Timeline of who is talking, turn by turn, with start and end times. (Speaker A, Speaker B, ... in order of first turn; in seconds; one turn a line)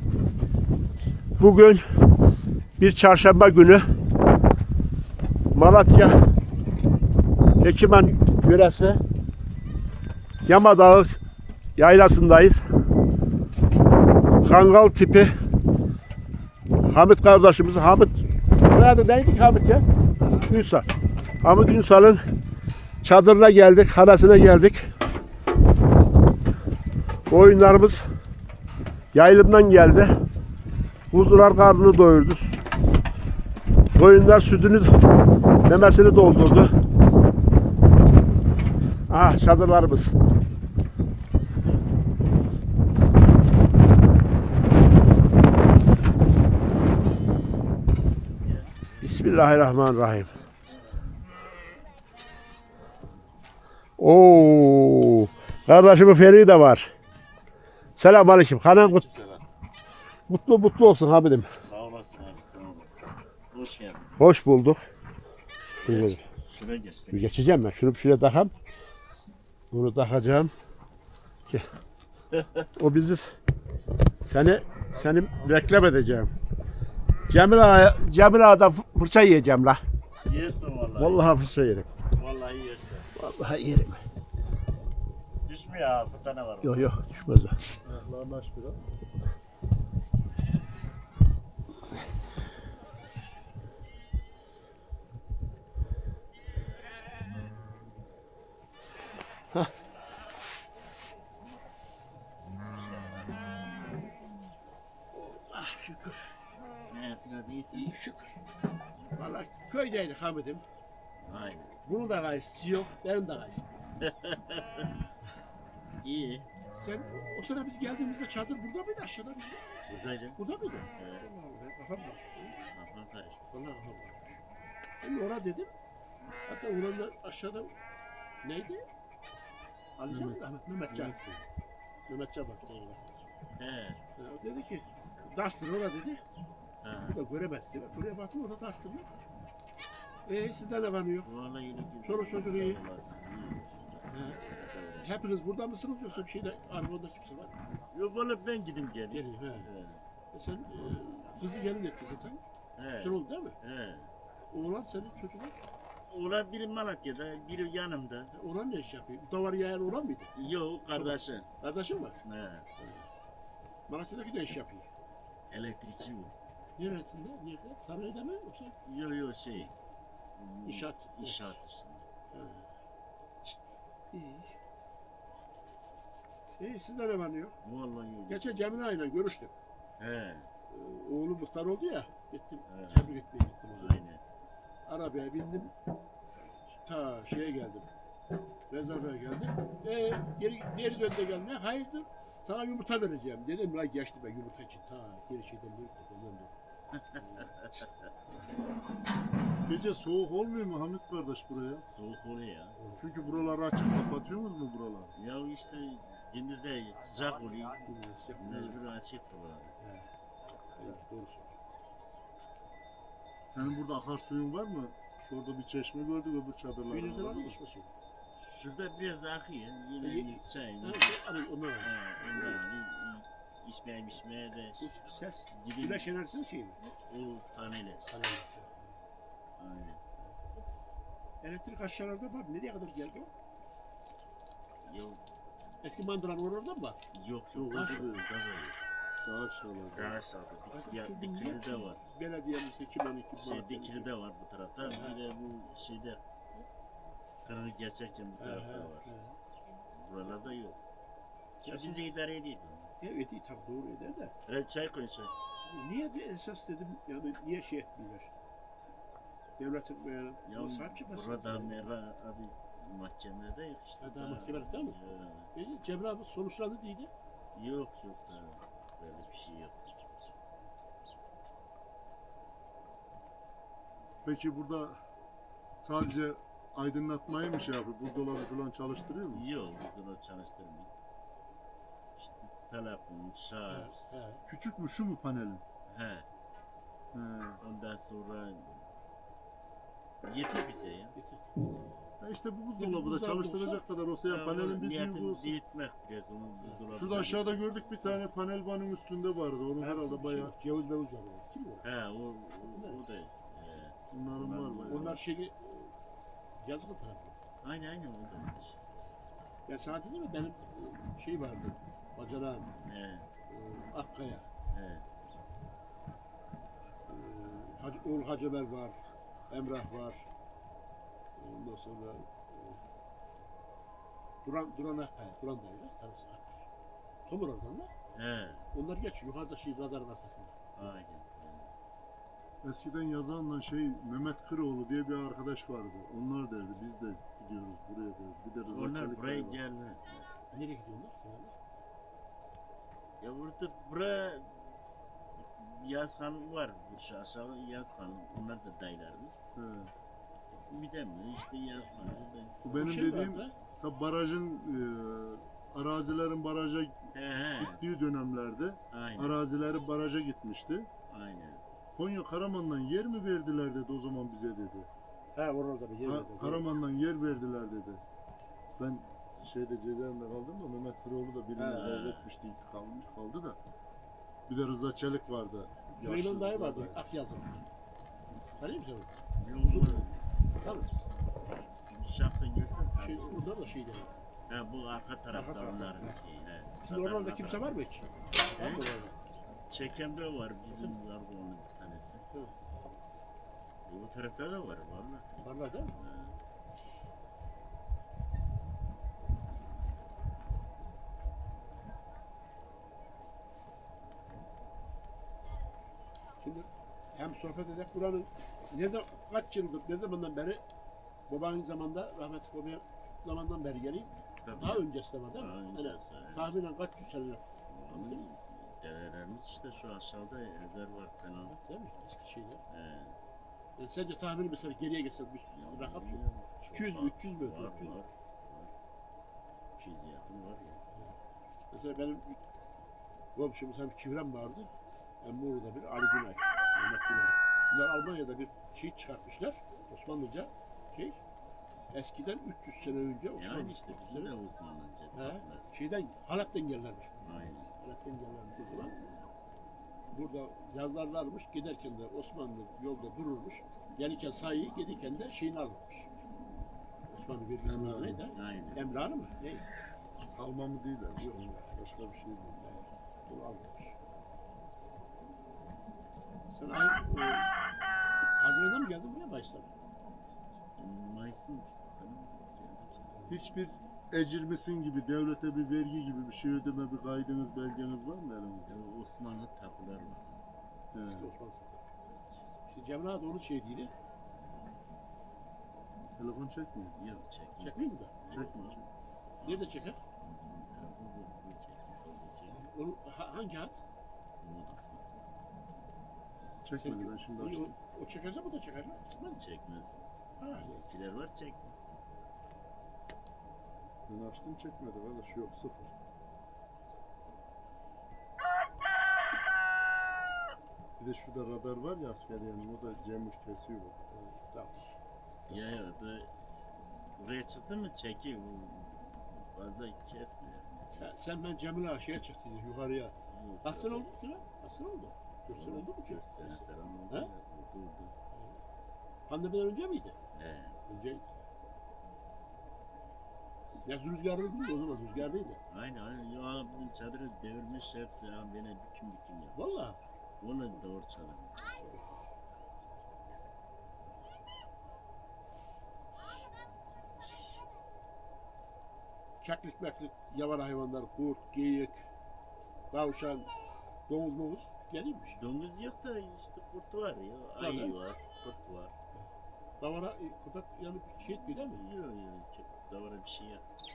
Speaker A: 1.4-1.8
Speaker A: 2.8-3.8
Speaker A: 5.5-6.3
Speaker A: 7.6-9.0
Speaker A: 10.4-11.2
Speaker A: 11.8-12.6
Speaker A: 14.4-15.3
Speaker A: 16.8-19.9
Speaker A: 20.4-20.9
Speaker A: 21.4-22.2
Speaker A: 23.0-24.9
Speaker A: 27.3-28.0
Speaker A: 29.1-30.2
Speaker A: 31.1-32.5
Speaker A: 33.9-35.0
Speaker A: 35.6-36.7
Speaker A: 39.1-40.1
Speaker B: 41.6-42.4
Speaker B: 48.4-50.9
Speaker A: 49.0-50.3
Speaker A: 54.0-56.9
Speaker A: 58.0-59.0
Speaker B: 58.7-59.4
Speaker A: 60.3-61.5
Speaker B: 61.6-64.1
Speaker A: 64.2-64.8
Speaker A: 65.8-66.2
Speaker B: 65.8-67.3
Speaker A: 67.1-68.5
Speaker A: 69.7-70.5
Speaker B: 72.3-72.7
Speaker A: 72.8-73.3
Speaker A: 74.2-76.3
Speaker A: 77.3-79.8
Speaker B: 80.2-81.2
Speaker A: 81.0-81.9
Speaker B: 82.1-83.1
Speaker A: 83.1-84.0
Speaker B: 85.4-86.9
Speaker A: 86.6-87.6
Speaker C: 87.8-88.8
Speaker B: 102.7-103.6
Speaker A: 105.1-106.4
Speaker B: 106.9-108.0
Speaker A: 107.7-108.4
Speaker A: 109.1-110.6
Speaker B: 111.2-111.8
Speaker A: 111.8-113.9
Speaker B: 114.0-114.8
Speaker B: 116.0-116.5
Speaker A: 116.7-122.6
Speaker B: 119.9-120.4
Speaker B: 120.9-121.2
Speaker B: 122.7-123.5
Speaker A: 123.5-124.4
Speaker A: 125.0-125.7
Speaker A: 126.5-127.7
Speaker A: 128.4-128.8
Speaker A: 130.0-131.4
Speaker C: 130.1-131.2
Speaker A: 132.1-133.1
Speaker B: 133.6-134.0
Speaker A: 134.2-136.2
Speaker B: 136.8-137.2
Speaker A: 137.0-139.1
Speaker A: 140.2-141.3
Speaker B: 141.2-145.2
Speaker A: 142.0-142.8
Speaker A: 144.1-144.4
Speaker A: 145.0-147.6
Speaker B: 147.9-150.0
Speaker A: 149.1-149.7
Speaker A: 150.3-153.6
Speaker B: 152.8-154.1
Speaker A: 154.5-155.6
Speaker B: 156.1-158.3
Speaker A: 158.3-160.3
Speaker B: 160.3-161.5
Speaker A: 160.9-162.2
Speaker B: 162.2-162.7
Speaker A: 162.8-163.1
Speaker A: 163.9-164.9
Speaker B: 165.5-166.3
Speaker A: 166.8-168.7
Speaker B: 168.8-169.7
Speaker B: 170.4-172.1
Speaker A: 170.7-171.6
Speaker A: 172.3-172.7
Speaker A: 174.1-174.5
Speaker A: 176.6-177.6
Speaker B: 177.6-178.6
Speaker A: 178.3-179.5
Speaker B: 180.0-180.5
Speaker A: 180.7-184.0
Speaker B: 182.7-183.2
Speaker B: 183.7-184.2
Speaker A: 184.8-185.7
Speaker A: 186.8-187.9
Speaker A: 188.7-196.5
Speaker B: 196.9-197.9
Speaker A: 197.2-197.5
Speaker C: 199.7-201.8
Speaker B: 201.7-202.8
Speaker A: 202.8-203.4
Speaker C: 202.9-205.1
Speaker B: 205.2-209.7
Speaker A: 207.8-208.8
Speaker A: 209.8-210.1
Speaker A: 210.8-211.5
Speaker C: 213.5-217.6
Speaker A: 216.8-217.9
Speaker B: 218.4-224.8
Speaker A: 220.0-222.6
Speaker A: 224.8-226.8
Speaker B: 225.5-226.1
Speaker B: 226.8-228.1
Speaker A: 228.1-228.8
Speaker B: 229.6-230.0
Speaker A: 231.4-233.3
Speaker B: 234.8-235.2
Speaker A: 235.8-237.0
Speaker B: 237.1-238.8
Speaker C: 237.5-238.2
Speaker A: 237.7-238.1
Speaker C: 239.2-240.2
Speaker B: 239.9-242.0
Speaker A: 240.7-244.1
Speaker B: 243.4-246.2
Speaker A: 244.8-245.2
Speaker B: 247.4-249.1
Speaker A: 248.4-249.3
Speaker B: 249.9-250.8
Speaker A: 251.6-252.0
Speaker B: 251.7-252.9
Speaker A: 253.0-254.3
Speaker B: 254.4-255.3
Speaker A: 255.6-258.3
Speaker A: 259.6-261.9
Speaker B: 260.4-265.5
Speaker A: 264.0-265.0
Speaker A: 265.5-267.1
Speaker B: 267.5-270.0
Speaker C: 274.2-275.0
Speaker C: 275.8-279.4
Speaker B: 279.3-280.9
Speaker B: 282.2-284.1
Speaker A: 283.7-284.4
Speaker C: 284.5-285.6
Speaker B: 285.9-286.2
Speaker C: 287.1-287.6
Speaker B: 287.6-288.8
Speaker B: 290.2-291.1
Speaker A: 291.1-291.9
Speaker C: 292.2-295.6
Speaker A: 292.8-293.8
Speaker B: 294.2-297.6
Speaker C: 296.9-300.5
Speaker A: 299.8-301.9
Speaker B: 301.8-305.2
Speaker A: 302.7-303.0
Speaker C: 304.1-305.2
Speaker A: 304.9-305.9
Speaker A: 306.6-307.4
Speaker B: 307.6-308.8
Speaker A: 309.7-312.7
Speaker B: 312.8-313.3
Speaker A: 313.5-314.5
Speaker B: 314.7-315.1
Speaker A: 317.1-319.0
Speaker A: 319.5-320.2
Speaker A: 321.4-322.8
Speaker A: 324.4-326.6
Speaker A: 327.3-327.9
Speaker B: 328.1-328.7
Speaker A: 328.7-330.6
Speaker B: 330.8-331.7
Speaker C: 332.6-339.6
Speaker B: 338.7-340.3
Speaker A: 340.5-341.5
Speaker B: 343.2-344.8
Speaker B: 345.4-349.4
Speaker C: 349.6-349.9
Speaker B: 350.7-352.9
Speaker C: 352.6-360.9
Speaker A: 352.7-353.5
Speaker B: 357.1-357.9
Speaker B: 358.9-359.4
Speaker B: 361.1-361.6
Speaker C: 361.9-364.9
Speaker A: 365.3-366.6
Speaker C: 366.0-368.0
Speaker C: 368.8-373.6
Speaker A: 371.6-371.9
Speaker B: 371.7-372.3
Speaker C: 374.5-377.0
Speaker A: 375.9-377.5
Speaker A: 378.6-381.0
Speaker B: 379.4-380.2
Speaker B: 381.9-383.3
Speaker A: 382.9-384.1
Speaker B: 384.5-387.7
Speaker A: 385.3-386.2
Speaker A: 386.8-389.1
Speaker B: 388.6-388.9
Speaker B: 389.7-392.2
Speaker B: 393.9-396.4
Speaker A: 395.4-395.9
Speaker A: 406.4-410.6
Speaker A: 411.3-418.2
Speaker B: 414.4-416.5
Speaker B: 417.7-421.5
Speaker A: 421.5-422.6
Speaker B: 422.7-423.1
Speaker A: 423.8-428.0
Speaker B: 425.5-428.7
Speaker B: 429.8-430.8
Speaker A: 431.7-432.4
Speaker A: 433.3-434.7
Speaker A: 435.2-441.2
Speaker A: 441.9-444.3
Speaker B: 443.4-445.6
Speaker A: 445.1-449.0
Speaker B: 447.2-447.7
Speaker A: 450.1-456.2
Speaker A: 457.1-459.7
Speaker C: 457.6-458.3
Speaker B: 458.3-458.9
Speaker C: 460.1-462.6
Speaker A: 461.1-461.7
Speaker A: 462.6-463.9
Speaker A: 466.5-467.5
Speaker A: 468.4-469.7
Speaker B: 470.8-473.2
Speaker C: 473.3-478.7
Speaker B: 478.6-480.4
Speaker C: 480.9-481.3
Speaker A: 481.0-481.9
Speaker B: 482.1-482.5
Speaker A: 482.7-483.9
Speaker B: 484.3-484.6
Speaker C: 486.2-487.0
Speaker B: 486.9-488.8
Speaker A: 487.6-488.1
Speaker C: 488.3-488.9
Speaker B: 489.4-492.6
Speaker A: 489.4-490.0
Speaker A: 492.5-493.8
Speaker B: 494.4-495.0
Speaker C: 496.6-497.7
Speaker A: 496.8-499.4
Speaker B: 499.2-501.8
Speaker A: 500.4-500.8
Speaker C: 504.1-505.9
Speaker C: 511.0-514.0
Speaker A: 514.1-515.0
Speaker B: 515.5-516.5
Speaker B: 517.0-521.1
Speaker A: 520.9-527.3
Speaker B: 523.3-524.1
Speaker B: 525.5-528.1
Speaker A: 528.3-528.6
Speaker A: 529.3-530.2
Speaker B: 530.3-530.9
Speaker A: 530.9-531.4
Speaker A: 533.8-535.6
Speaker B: 535.7-539.8
Speaker A: 539.5-540.0
Speaker B: 540.4-541.9
Speaker A: 541.8-542.1
Speaker A: 549.4-552.0
Speaker A: 552.9-553.5
Speaker A: 554.1-555.4
Speaker B: 555.3-558.9
Speaker A: 557.6-558.0
Speaker A: 559.8-561.8
Speaker B: 561.3-563.6